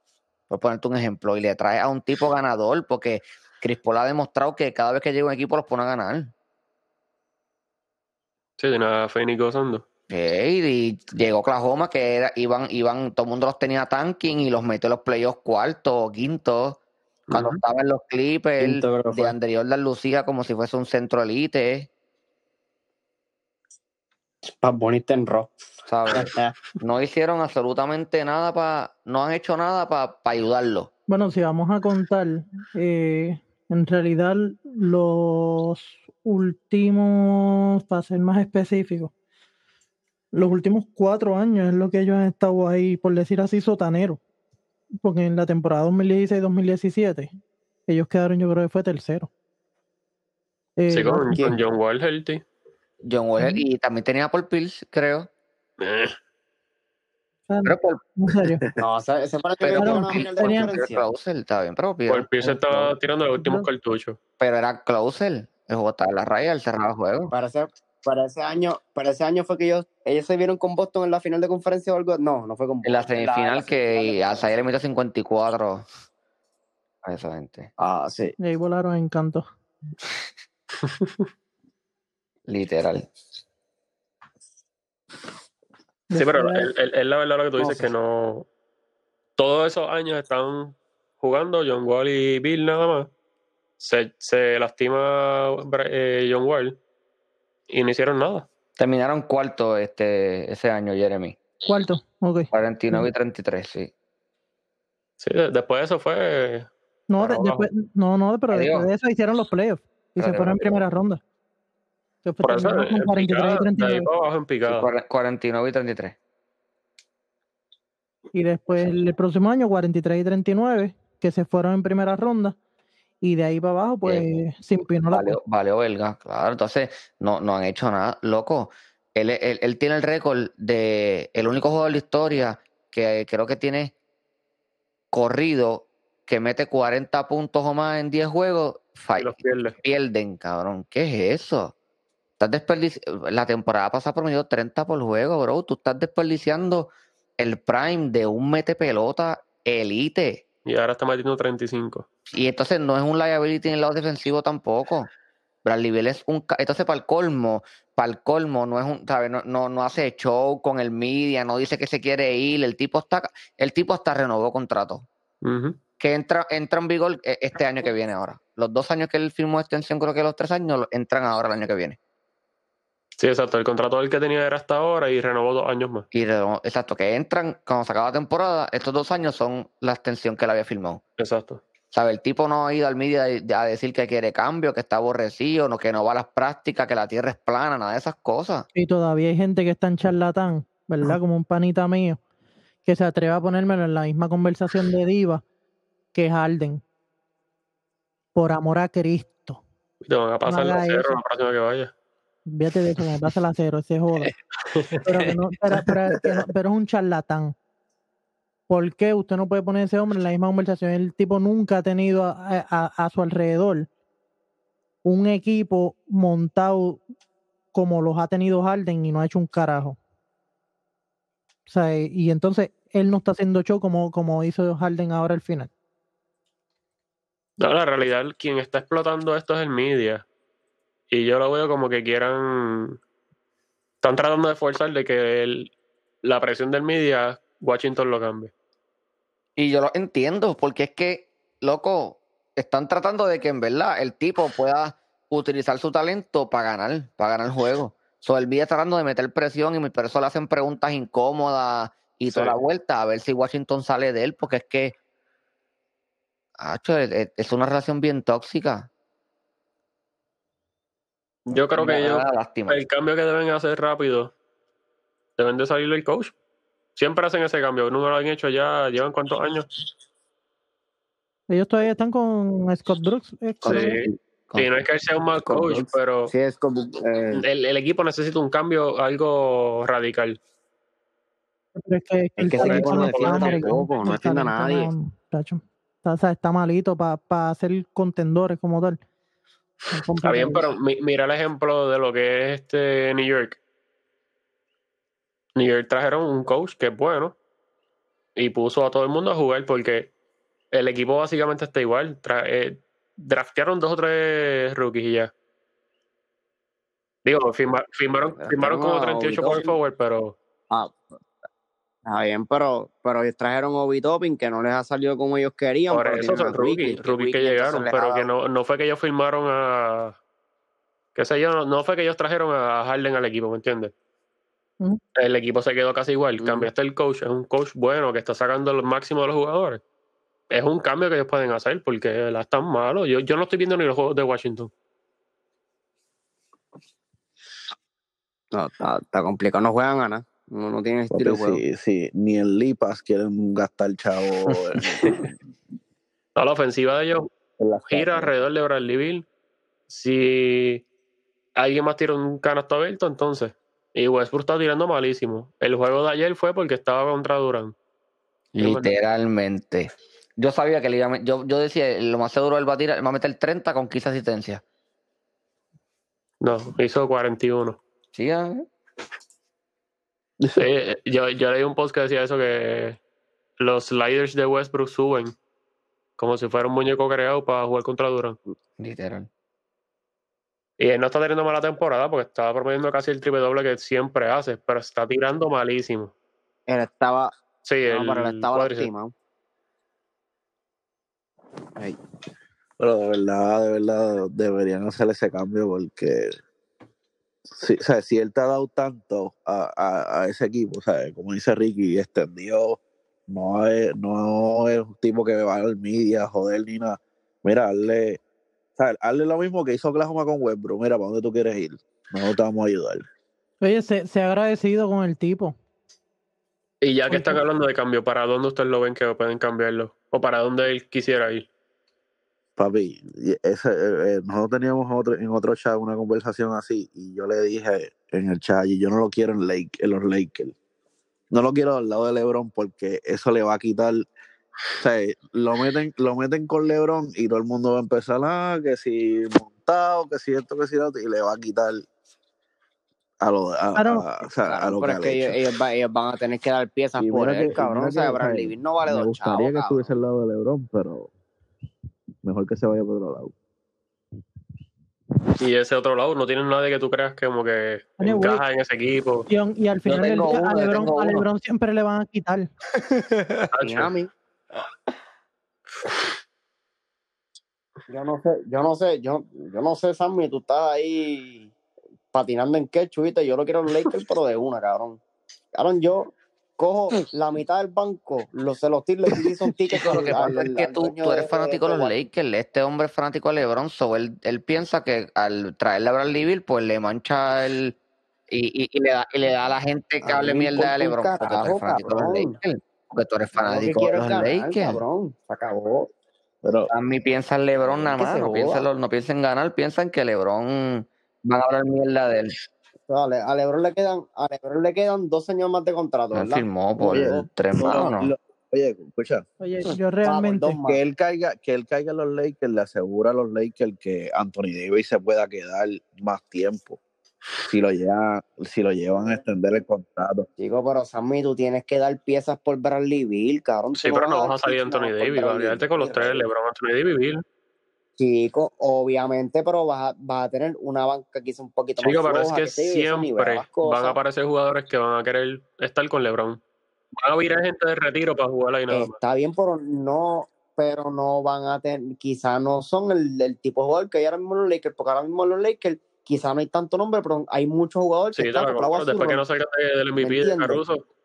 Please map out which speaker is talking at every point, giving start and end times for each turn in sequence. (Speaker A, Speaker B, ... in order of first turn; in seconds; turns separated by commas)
Speaker A: 0.5-6.3, Speaker B: 8.6-9.8, Speaker A: 10.1-16.8, Speaker B: 17.3-17.6, Speaker A: 17.3-21.9, Speaker C: 18.6-19.3, Speaker C: 24.5-25.6, Speaker A: 25.9-30.9, Speaker C: 26.1-26.6, Speaker D: 31.1-39.1, Speaker D: 40.3-44.2, Speaker D: 45.0-47.3, Speaker D: 47.9-49.3, Speaker D: 50.8-51.5, Speaker B: 50.9-52.4, Speaker A: 53.0-55.3, Speaker D: 53.4-53.6, Speaker B: 55.8-56.1, Speaker D: 57.5-58.6, Speaker A: 57.6-58.0, Speaker C: 58.8-61.0, Speaker A: 59.6-62.9, Speaker D: 59.8-60.8, Speaker B: 62.1-64.2, Speaker D: 63.4-63.7, Speaker A: 64.4-67.3, Speaker C: 67.3-74.5, Speaker A: 72.8-75.9, Speaker A: 77.0-77.7, Speaker C: 77.8-78.3, Speaker D: 78.4-79.5, Speaker B: 80.8-81.2, Speaker A: 82.5-83.1, Speaker D: 86.1-86.7, Speaker B: 86.1-88.5, Speaker C: 87.6-87.9, Speaker B: 89.4-93.1, Speaker B: 93.8-96.8, Speaker B: 97.7-98.5, Speaker A: 98.8-101.4, Speaker D: 101.7-103.1, Speaker A: 102.5-103.9, Speaker B: 105.2-107.7, Speaker D: 107.1-111.2, Speaker A: 108.5-108.9, Speaker A: 110.2-110.8, Speaker D: 112.2-114.1, Speaker B: 112.4-114.9, Speaker A: 114.7-116.2, Speaker D: 118.3-122.6, Speaker D: 123.2-125.4, Speaker A: 125.1-133.9, Speaker A: 135.1-141.7, Speaker B: 139.2-139.8, Speaker A: 142.4-150.4, Speaker B: 150.7-152.1, Speaker A: 152.3-155.1, Speaker A: 155.6-165.1, Speaker B: 165.4-165.8, Speaker A: 166.0-172.0, Speaker B: 173.2-176.1, Speaker A: 176.1-181.0, Speaker B: 181.2-181.6, Speaker A: 181.9-188.7, Speaker D: 188.7-192.2, Speaker D: 192.8-195.4, Speaker D: 196.1-196.8, Speaker D: 198.3-199.6, Speaker B: 200.0-201.9, Speaker D: 200.4-201.2, Speaker D: 202.4-204.3, Speaker B: 204.6-205.1, Speaker D: 205.0-207.6, Speaker D: 208.7-213.9, Speaker D: 215.0-217.0, Speaker D: 217.7-220.0, Speaker D: 221.7-225.7, Speaker B: 227.6-230.2, Speaker B: 231.1-233.0, Speaker B: 234.0-235.7, Speaker B: 236.2-238.5, Speaker A: 239.6-254.9, Speaker B: 252.3-252.5, Speaker A: 256.6-258.9, Speaker B: 261.5-264.3, Speaker A: 261.8-262.8, Speaker B: 265.4-266.3, Speaker B: 266.9-269.7, Speaker D: 271.5-274.0, Speaker B: 273.6-276.3, Speaker C: 275.4-277.4, Speaker B: 277.3-280.4, Speaker D: 281.8-289.0, Speaker C: 282.4-284.9, Speaker B: 282.5-283.9, Speaker D: 289.9-290.6, Speaker B: 290.2-293.6, Speaker B: 295.6-297.4, Speaker B: 298.4-300.1, Speaker B: 300.7-305.3, Speaker B: 307.2-310.4, Speaker C: 308.4-309.7, Speaker C: 310.7-311.0, Speaker C: 312.1-318.3, Speaker B: 315.9-320.2, Speaker B: 321.1-323.9, Speaker B: 325.1-329.8, Speaker C: 326.4-326.7, Speaker B: 330.5-334.7, Speaker C: 338.5-341.6, Speaker E: 341.1-345.3, Speaker B: 346.4-347.3, Speaker E: 347.6-348.3, Speaker B: 347.9-349.2, Speaker B: 349.9-350.8, Speaker B: 351.6-357.7, Speaker A: 358.5-364.6, Speaker B: 358.6-358.9, Speaker B: 366.4-367.8, Speaker A: 368.1-368.7, Speaker E: 370.4-370.6, Speaker B: 370.5-373.0, Speaker B: 373.6-375.3, Speaker B: 376.2-378.4, Speaker A: 378.8-379.3, Speaker B: 380.8-386.1, Speaker C: 386.7-387.3, Speaker B: 387.6-388.9, Speaker C: 387.9-389.1, Speaker E: 392.8-396.4, Speaker E: 397.5-408.2, Speaker E: 408.8-413.0, Speaker D: 413.6-415.5, Speaker B: 416.8-421.5, Speaker D: 417.1-417.4, Speaker E: 422.6-430.5, Speaker E: 431.3-434.0, Speaker E: 434.8-441.8, Speaker E: 443.2-445.4, Speaker D: 443.7-444.0, Speaker C: 444.4-449.9, Speaker E: 447.0-451.1, Speaker E: 452.2-453.3, Speaker B: 455.4-459.3, Speaker D: 458.0-458.4, Speaker D: 459.3-462.5, Speaker A: 459.9-461.2, Speaker A: 462.9-463.3, Speaker B: 463.5-463.9, Speaker C: 463.6-464.1, Speaker C: 467.9-471.5, Speaker C: 472.1-475.0, Speaker C: 475.5-481.9, Speaker A: 479.7-487.8, Speaker A: 488.3-494.8, Speaker C: 490.0-492.4, Speaker C: 493.4-495.9, Speaker E: 496.4-496.7, Speaker A: 496.7-502.4, Speaker C: 497.9-498.6, Speaker C: 502.9-507.3, Speaker A: 506.1-508.1, Speaker E: 506.9-509.2, Speaker D: 509.4-510.6, Speaker C: 510.0-510.8, Speaker E: 510.6-516.8, Speaker E: 517.5-520.3, Speaker C: 520.4-526.2, Speaker B: 523.8-527.2, Speaker C: 528.0-534.0, Speaker B: 531.8-536.4, Speaker B: 537.0-538.9, Speaker C: 538.7-549.2, Speaker B: 548.1-550.8, Speaker C: 550.0-550.6